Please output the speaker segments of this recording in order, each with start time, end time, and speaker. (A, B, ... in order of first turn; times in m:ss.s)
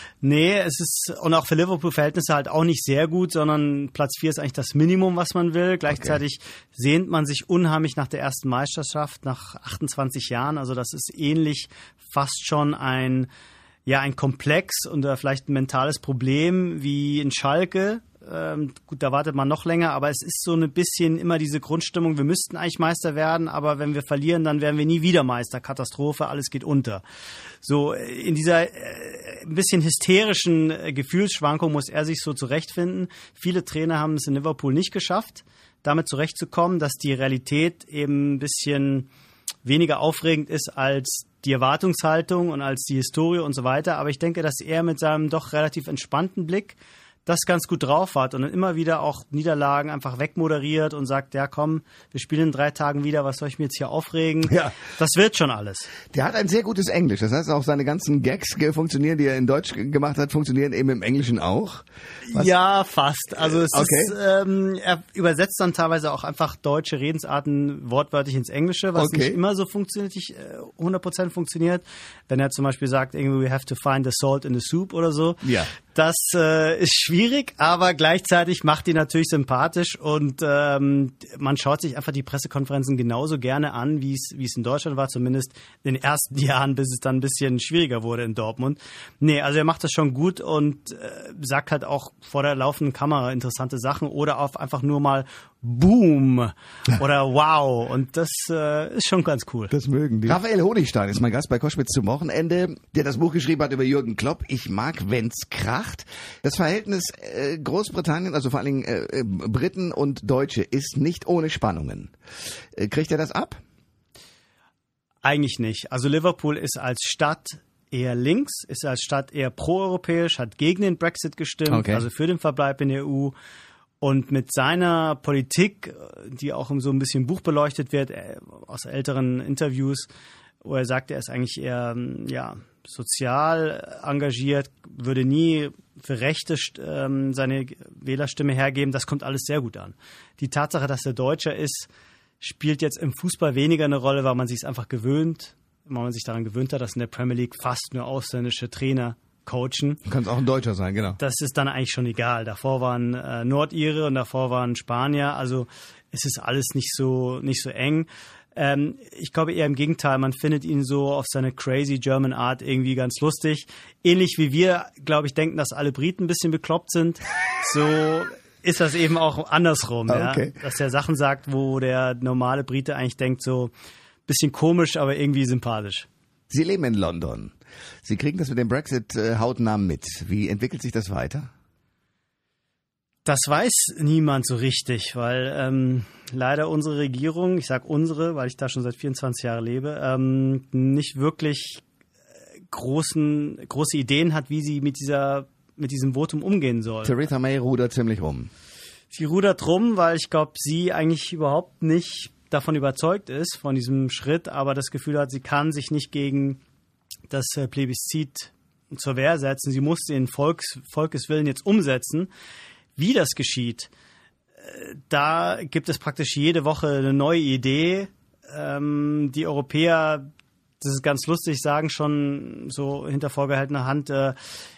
0:00.2-0:13.3 A
0:13.8-0:27.0 A
0:27.6-0:39.1 A
0:39.6-0:55.9 A
0:54.5-0:54.7 B
0:56.1-1:02.6 B
1:02.3-1:39.7 A
1:03.4-1:04.2 B
1:09.0-1:09.4 B
1:15.4-1:15.7 B
1:39.7-1:52.1 B
1:52.8-1:53.6 B
1:55.2-2:03.3 A
2:01.7-2:02.1 B
2:04.0-2:10.1 A
2:10.6-2:21.9 A
2:22.4-2:30.0 A
2:30.1-2:31.2 B
2:31.2-2:53.7 A
2:50.1-2:50.6 B
2:54.2-2:56.1 A
2:56.5-2:57.5 B
2:58.0-3:01.5 B
3:03.2-3:11.8 A
3:12.7-3:17.2 A
3:17.0-3:18.5 B
3:19.1-3:26.6 A
3:27.3-3:32.3 A
3:33.0-3:33.9 A
3:34.6-3:40.3 A
3:40.8-3:44.4 A